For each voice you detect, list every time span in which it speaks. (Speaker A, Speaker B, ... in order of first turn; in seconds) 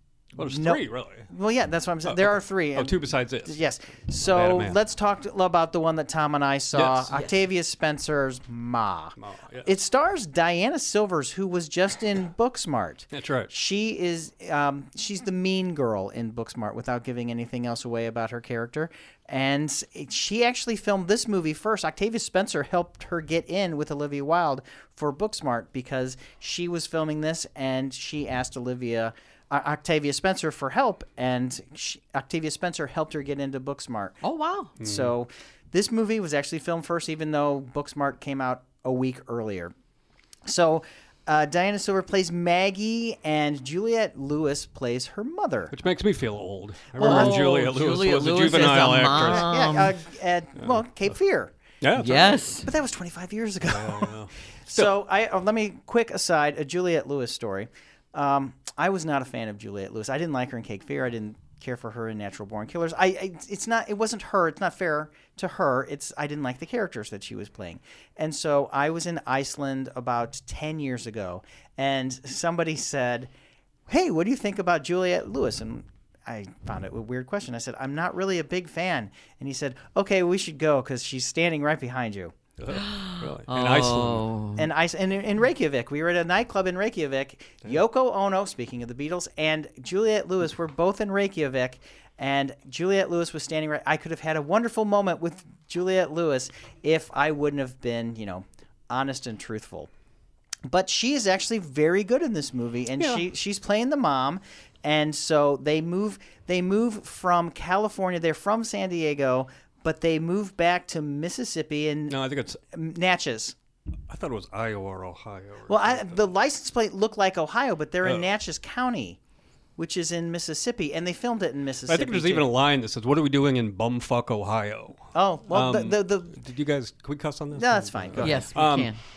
Speaker A: 0.4-1.3, 2.1-3.6, 4.2-4.8, 6.7-7.1, 9.2-9.7, 13.1-13.5, 34.8-35.1, 45.7-49.5, 51.8-52.6, 53.7-54.9, 82.6-84.2, 103.0-103.2, 112.1-112.6, 114.1-116.1, 121.9-128.9
Speaker B: 0.4-34.2, 34.8-39.7, 40.5-45.7, 47.0-47.5, 49.1-51.5, 52.6-73.3, 73.9-82.3, 84.6-99.9, 100.7-112.2, 112.7-113.6, 115.7-119.2, 119.8-122.5, 125.1-126.4, 127.5-128.5
Speaker C: 34.2-34.7, 47.0-49.9, 52.0-52.7, 82.7-84.7, 128.2-129.0